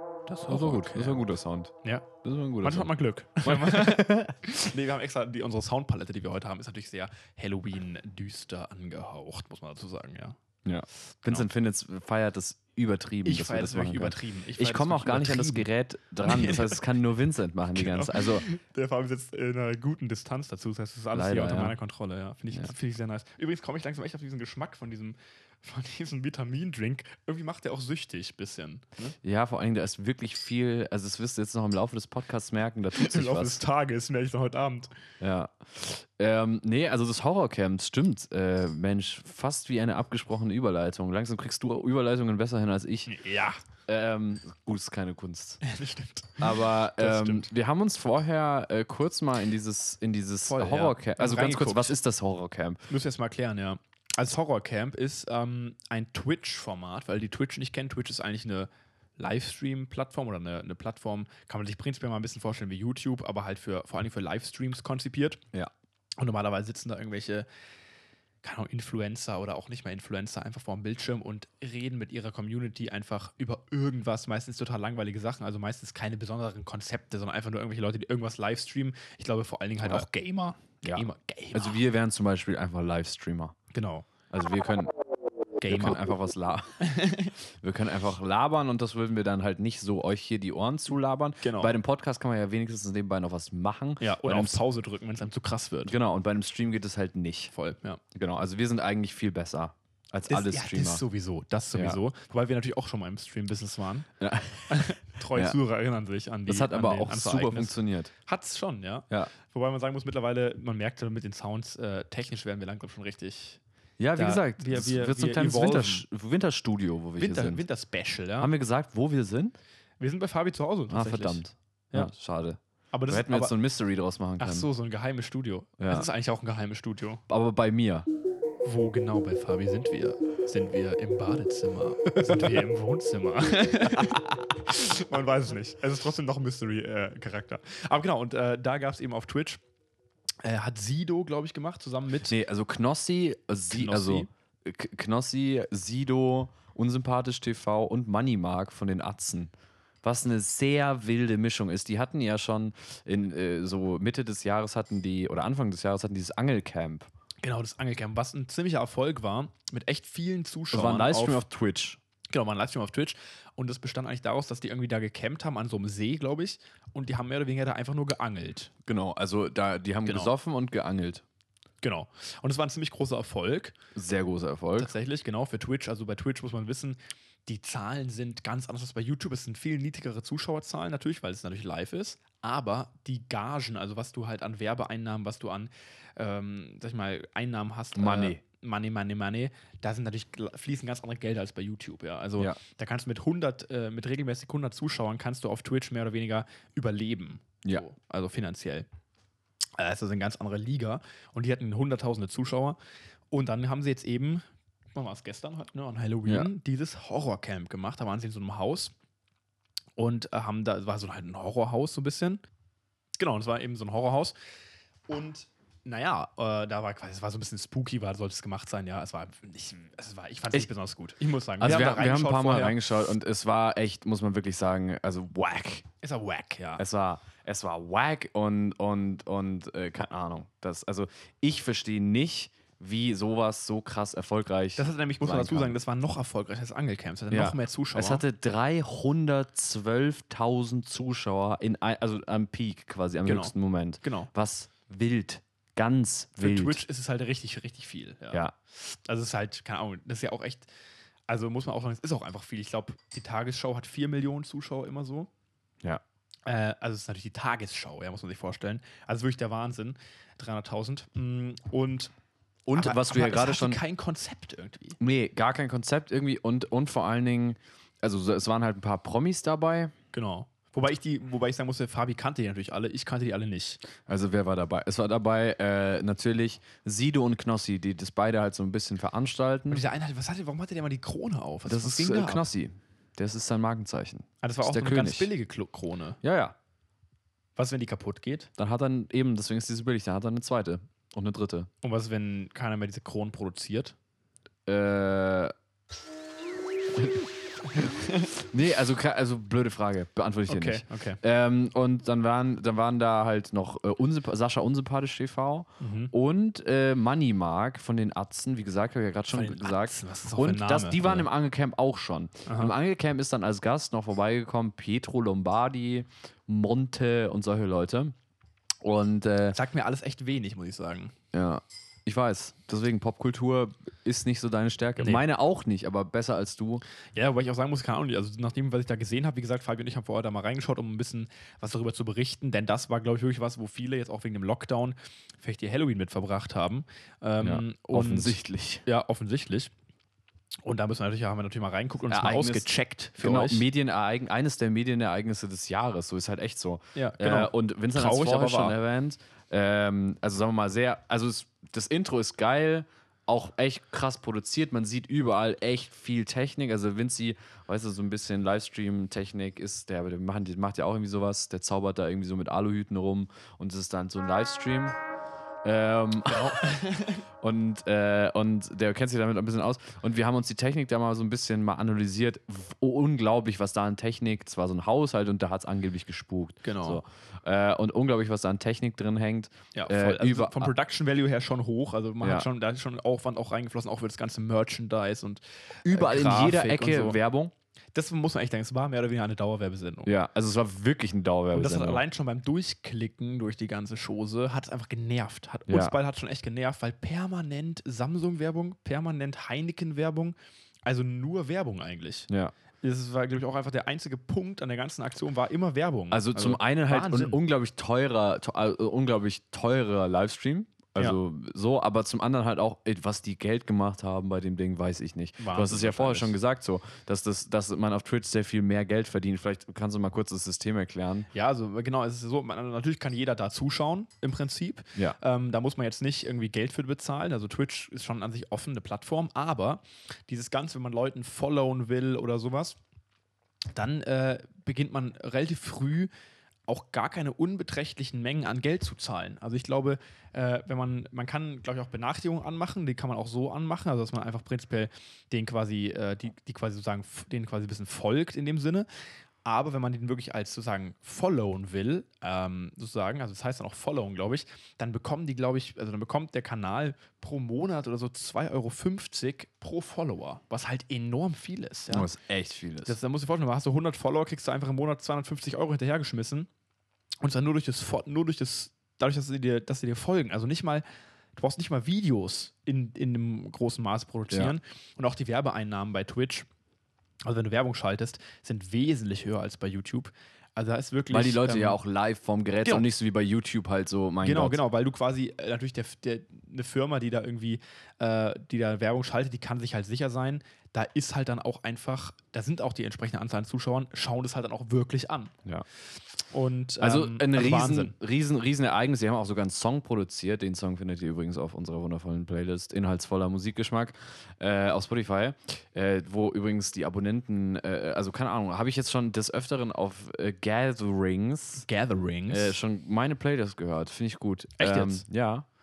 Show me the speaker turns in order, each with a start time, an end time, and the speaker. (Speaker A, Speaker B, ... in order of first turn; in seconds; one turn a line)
Speaker A: 0.3-1.2
Speaker B: 0.4-2.9
Speaker A: 1.8-2.1
Speaker A: 2.6-10.4
Speaker B: 3.4-4.4
Speaker B: 10.6-18.4
Speaker A: 11.2-11.5
Speaker A: 13.2-15.7
Speaker A: 16.2-16.8
Speaker A: 17.7-29.1
Speaker B: 21.1-21.7
Speaker B: 29.2-33.6
Speaker A: 32.9-34.9
Speaker B: 35.2-43.1
Speaker A: 43.1-43.6
Speaker B: 43.9-45.6
Speaker A: 45.6-47.5
Speaker B: 46.4-52.9
Speaker A: 50.4-52.0
Speaker A: 52.9-65.4
Speaker A: 66.2-67.5
Speaker A: 68.4-81.8
Speaker B: 80.8-83.5
Speaker A: 83.7-84.1
Speaker B: 84.3-84.9
Speaker A: 85.6-86.0
Speaker B: 85.7-86.9
Speaker A: 86.8-87.3
Speaker B: 87.6-94.6
Speaker A: 91.4-91.7
Speaker A: 94.0-95.9
Speaker B: 95.8-97.5
Speaker A: 97.5-98.0
Speaker B: 98.1-101.0
Speaker A: 100.3-104.1
Speaker B: 104.2-105.6
Speaker A: 104.7-113.6
Speaker B: 106.5-108.1
Speaker B: 114.0-117.6
Speaker A: 114.2-116.0
Speaker A: 117.2-118.5
Speaker B: 118.4-119.5
Speaker A: 120.0-122.1
Speaker B: 120.9-124.7
Speaker A: 122.9-123.5
Speaker A: 124.4-127.2
Speaker B: 125.8-126.1
Speaker B: 127.3-128.1
Speaker A: 128.6-139.6
Speaker B: 132.1-132.6
Speaker B: 133.9-134.4
Speaker A: 140.4-142.3
Speaker B: 142.3-149.5
Speaker A: 143.7-144.3
Speaker B: 150.0-157.1
Speaker A: 157.4-161.4
Speaker B: 160.7-162.0
Speaker A: 162.3-168.7
Speaker B: 168.8-171.2
Speaker A: 170.1-170.3
Speaker A: 171.8-173.8
Speaker B: 173.9-174.9
Speaker A: 174.8-198.9
Speaker B: 187.9-188.4
Speaker A: 199.8-202.8
Speaker A: 203.3-208.9
Speaker A: 210.0-212.4
Speaker A: 213.2-214.3
Speaker A: 215.1-222.8
Speaker B: 221.6-225.8
Speaker A: 226.0-226.8
Speaker B: 226.8-235.7
Speaker A: 234.8-238.2
Speaker B: 237.3-246.8
Speaker A: 243.2-244.3
Speaker A: 246.4-250.7
Speaker A: 251.3-255.3
Speaker A: 256.4-262.1
Speaker B: 262.6-263.8
Speaker A: 262.7-265.0
Speaker B: 265.0-269.9
Speaker A: 270.1-273.8
Speaker B: 274.1-279.8
Speaker A: 279.7-282.5
Speaker B: 281.6-285.3
Speaker A: 284.4-286.2
Speaker B: 286.2-286.5
Speaker A: 287.6-288.5
Speaker B: 288.6-291.7
Speaker A: 291.8-293.9
Speaker B: 294.6-295.5
Speaker B: 296.9-318.1
Speaker A: 300.5-301.2
Speaker A: 305.8-306.1
Speaker A: 309.3-311.3
Speaker A: 312.5-312.7
Speaker B: 318.8-319.6
Speaker A: 319.5-321.1
Speaker B: 321.3-326.8
Speaker A: 327.1-339.7
Speaker B: 337.4-338.8
Speaker A: 340.6-343.6
Speaker B: 342.1-342.7
Speaker B: 343.2-365.0
Speaker A: 346.9-348.8
Speaker B: 365.6-366.8
Speaker A: 366.3-367.2
Speaker B: 367.4-380.7
Speaker A: 376.6-377.0
Speaker A: 379.7-387.2
Speaker B: 382.2-382.5
Speaker B: 385.8-387.5
Speaker A: 387.9-390.1
Speaker B: 390.0-392.0
Speaker A: 391.5-400.3
Speaker B: 395.7-395.9
Speaker A: 400.9-402.3
Speaker B: 402.3-402.5
Speaker A: 402.8-407.4
Speaker B: 406.1-421.3
Speaker A: 415.4-416.4
Speaker A: 421.3-432.8
Speaker A: 433.7-436.1
Speaker A: 436.7-448.9
Speaker A: 449.4-462.1
Speaker B: 461.9-462.9
Speaker A: 462.8-466.5
Speaker A: 467.2-470.8
Speaker A: 471.3-476.5
Speaker A: 477.2-481.8
Speaker B: 481.1-484.6
Speaker A: 484.2-495.3
Speaker A: 496.3-497.9
Speaker B: 496.8-511.7
Speaker A: 511.6-512.6
Speaker B: 512.3-515.5
Speaker A: 514.6-515.0